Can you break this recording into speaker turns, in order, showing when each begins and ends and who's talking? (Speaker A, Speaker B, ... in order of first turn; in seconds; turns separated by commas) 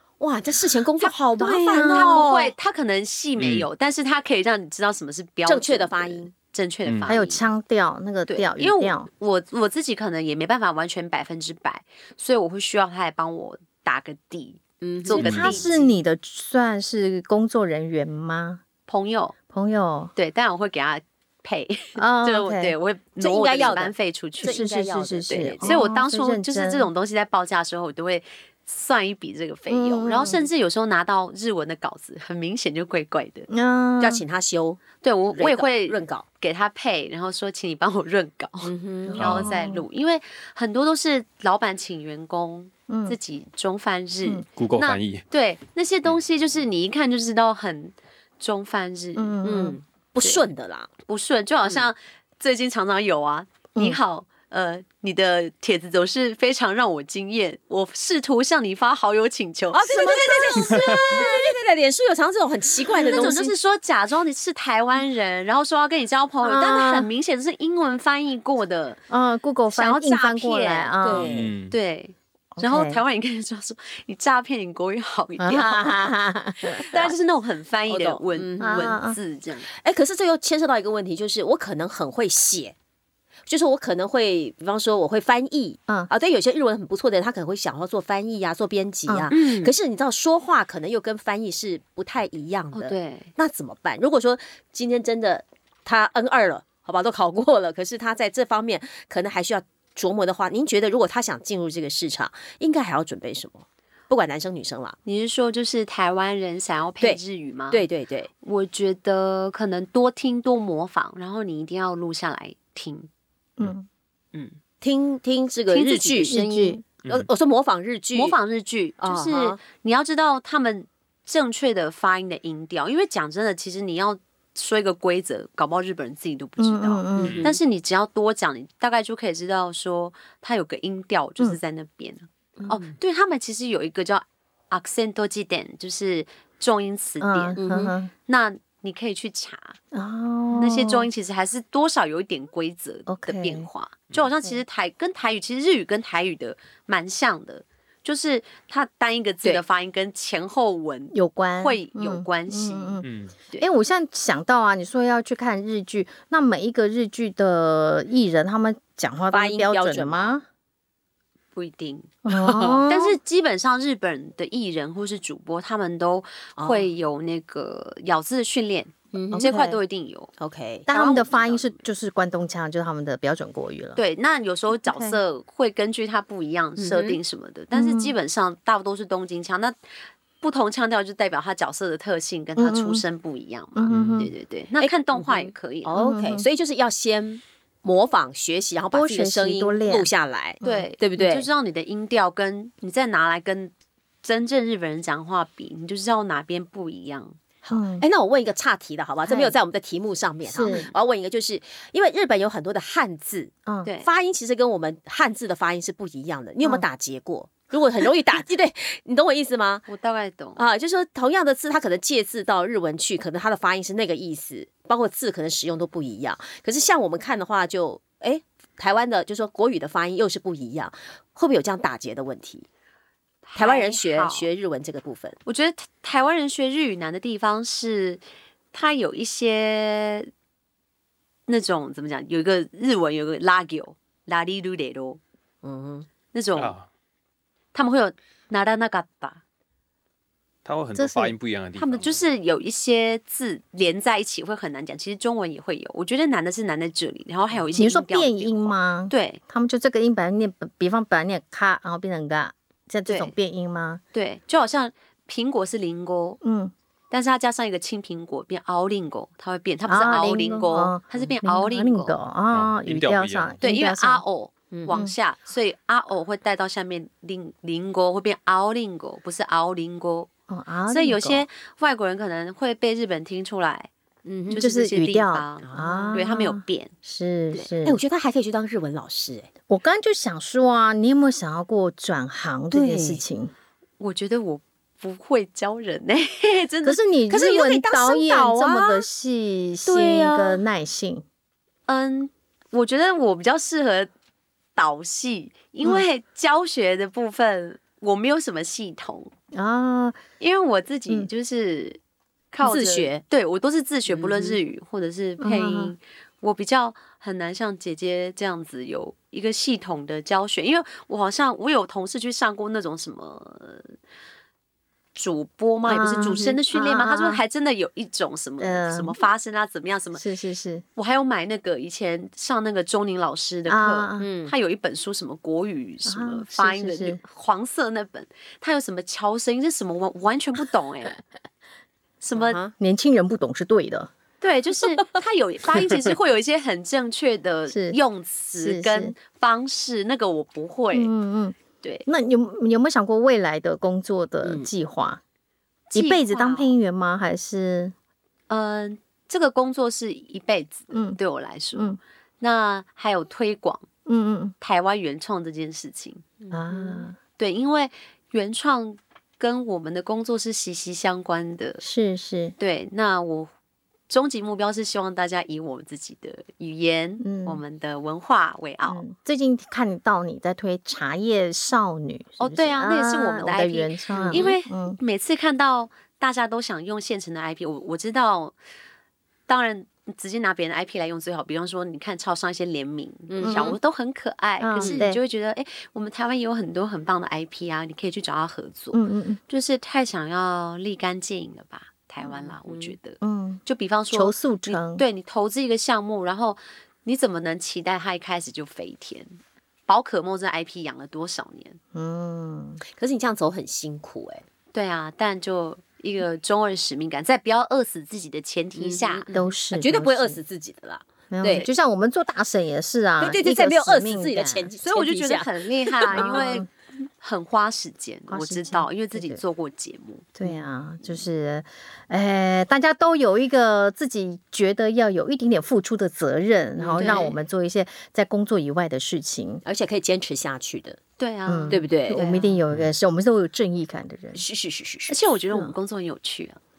Speaker A: 0.2-2.5, Speaker B: 1.0-7.4, Speaker C: 1.4-2.1, Speaker D: 3.4-3.7, Speaker A: 5.5-6.3, Speaker C: 7.1-9.1, Speaker B: 8.3-15.9, Speaker A: 14.8-15.5, Speaker C: 15.1-18.6, Speaker D: 15.2-15.5, Speaker B: 18.9-19.4, Speaker C: 19.5-20.1, Speaker B: 20.1-24.6, Speaker C: 22.0-22.7, Speaker A: 23.2-25.8, Speaker C: 24.4-26.9, Speaker B: 25.3-33.5, Speaker C: 29.7-30.4, Speaker C: 33.5-34.2, Speaker A: 34.0-34.8, Speaker B: 35.0-49.4, Speaker A: 35.4-36.2, Speaker A: 38.6-39.3, Speaker C: 39.1-39.9, Speaker D: 39.2-39.5, Speaker C: 42.9-43.2, Speaker D: 44.6-45.2, Speaker C: 49.2-49.8, Speaker A: 49.4-50.9, Speaker B: 50.2-50.5, Speaker B: 51.1-61.3, Speaker A: 59.7-63.5, Speaker D: 60.7-61.0, Speaker B: 62.9-69.0, Speaker C: 63.0-63.5, Speaker C: 66.4-67.1, Speaker C: 69.1-71.3, Speaker B: 69.7-71.2, Speaker A: 71.0-71.5, Speaker D: 71.2-71.8, Speaker B: 71.7-75.9, Speaker C: 72.6-73.0, Speaker C: 75.4-77.0, Speaker B: 76.8-79.7, Speaker A: 77.9-79.0, Speaker C: 78.6-79.2, Speaker A: 79.7-82.8, Speaker A: 83.5-105.0, Speaker B: 89.3-89.7, Speaker B: 92.7-93.3, Speaker B: 105.0-107.8, Speaker A: 107.7-108.3, Speaker B: 108.4-113.1, Speaker C: 113.6-113.9, Speaker A: 114.8-116.5, Speaker B: 115.7-116.8, Speaker C: 116.3-116.8, Speaker A: 117.0-118.4, Speaker B: 118.1-137.6, Speaker A: 119.0-119.6, Speaker C: 126.6-127.4, Speaker A: 127.2-127.6, Speaker D: 127.2-127.5, Speaker A: 132.6-132.9, Speaker C: 137.2-138.1, Speaker A: 137.6-137.9, Speaker B: 138.3-139.8, Speaker C: 139.9-141.1, Speaker B: 140.6-153.7, Speaker C: 143.1-143.7, Speaker C: 151.1-153.1, Speaker D: 153.0-153.3, Speaker C: 153.6-160.4, Speaker A: 159.3-160.4, Speaker B: 161.6-162.1, Speaker C: 162.2-163.2, Speaker A: 162.3-162.8, Speaker B: 162.9-170.3, Speaker A: 166.6-166.9, Speaker A: 169.1-169.5, Speaker C: 169.3-169.8, Speaker A: 170.4-170.9, Speaker C: 170.9-174.0, Speaker B: 170.9-171.8, Speaker B: 174.0-179.8, Speaker C: 174.8-175.2, Speaker A: 176.8-177.2, Speaker C: 177.7-178.2, Speaker B: 180.4-185.9, Speaker C: 182.6-183.0, Speaker C: 183.8-184.3, Speaker D: 183.9-184.3, Speaker A: 184.8-191.5, Speaker C: 185.9-186.5, Speaker C: 188.9-190.1, Speaker C: 190.6-190.9, Speaker B: 190.6-197.4, Speaker A: 197.7-209.9, Speaker C: 197.7-198.1, Speaker C: 199.3-199.6, Speaker C: 200.5-200.9, Speaker B: 200.7-200.9, Speaker B: 203.8-204.1, Speaker B: 209.9-210.6, Speaker A: 210.6-222.7, Speaker B: 223.5-224.5, Speaker A: 223.6-225.4, Speaker B: 225.4-230.3, Speaker B: 231.5-235.2, Speaker A: 235.6-236.1, Speaker B: 236.3-236.7, Speaker D: 236.6-236.9, Speaker B: 237.7-239.4, Speaker D: 240.7-242.2, Speaker C: 240.9-241.3, Speaker B: 241.8-249.4, Speaker C: 247.8-254.0, Speaker B: 253.1-253.3, Speaker B: 254.1-256.4, Speaker C: 256.4-256.7, Speaker B: 257.1-262.2, Speaker C: 259.9-264.2, Speaker D: 262.5-263.5, Speaker B: 263.6-270.3, Speaker A: 264.7-265.0, Speaker C: 270.5-271.4, Speaker B: 270.9-273.9, Speaker A: 274.2-274.6, Speaker B: 274.5-276.9, Speaker C: 274.5-278.0, Speaker A: 275.6-276.2, Speaker A: 277.6-279.5, Speaker C: 279.7-283.5, Speaker A: 282.7-283.2, Speaker B: 284.0-287.0, Speaker C: 286.8-291.2, Speaker A: 287.3-289.1, Speaker A: 289.9-290.6, Speaker B: 291.9-294.1, Speaker B: 294.8-299.3, Speaker C: 299.5-300.2, Speaker B: 300.4-302.0, Speaker B: 302.5-314.0, Speaker A: 302.6-303.2, Speaker A: 304.1-304.6, Speaker C: 305.4-305.9, Speaker B: 315.1-320.2, Speaker C: 315.9-317.4, Speaker C: 318.6-319.2, Speaker C: 320.2-320.8, Speaker B: 321.0-331.2, Speaker C: 323.7-324.3, Speaker A: 324.2-324.5, Speaker C: 326.1-327.2, Speaker B: 332.2-332.6, Speaker A: 332.4-332.7, Speaker C: 332.8-334.1, Speaker B: 334.4-341.1, Speaker C: 337.7-338.0, Speaker C: 338.6-339.1, Speaker C: 340.9-345.2, Speaker A: 344.4-344.7, Speaker B: 345.9-346.8, Speaker C: 345.9-347.9, Speaker B: 348.5-353.9, Speaker C: 350.9-351.2, Speaker C: 354.1-354.6, Speaker B: 354.6-356.3, Speaker A: 356.5-357.0, Speaker C: 356.5-357.2, Speaker B: 357.4-361.8, Speaker C: 361.8-362.6, Speaker B: 362.6-363.5, Speaker B: 364.1-369.0, Speaker C: 367.2-367.6, Speaker C: 368.8-375.0, Speaker B: 372.4-378.6, Speaker A: 374.1-374.5, Speaker B: 379.5-399.4, Speaker A: 383.3-383.8, Speaker C: 383.4-383.8, Speaker C: 384.6-385.2, Speaker A: 384.8-385.1, Speaker C: 388.9-389.4, Speaker A: 392.3-392.9, Speaker C: 393.2-395.0, Speaker B: 399.9-401.8, Speaker C: 401.9-402.8, Speaker A: 403.0-404.4, Speaker B: 404.7-409.3, Speaker A: 408.8-411.7, Speaker C: 409.3-410.4, Speaker C: 411.3-414.7, Speaker A: 413.2-416.7, Speaker B: 414.8-416.7, Speaker C: 416.1-416.7, Speaker B: 417.2-420.3, Speaker C: 418.3-419.4, Speaker C: 420.4-429.6, Speaker A: 426.8-427.3, Speaker B: 427.0-427.4, Speaker A: 429.6-431.0, Speaker B: 431.2-431.9, Speaker C: 431.5-434.4, Speaker A: 431.7-432.6, Speaker A: 434.4-435.1, Speaker B: 435.1-436.6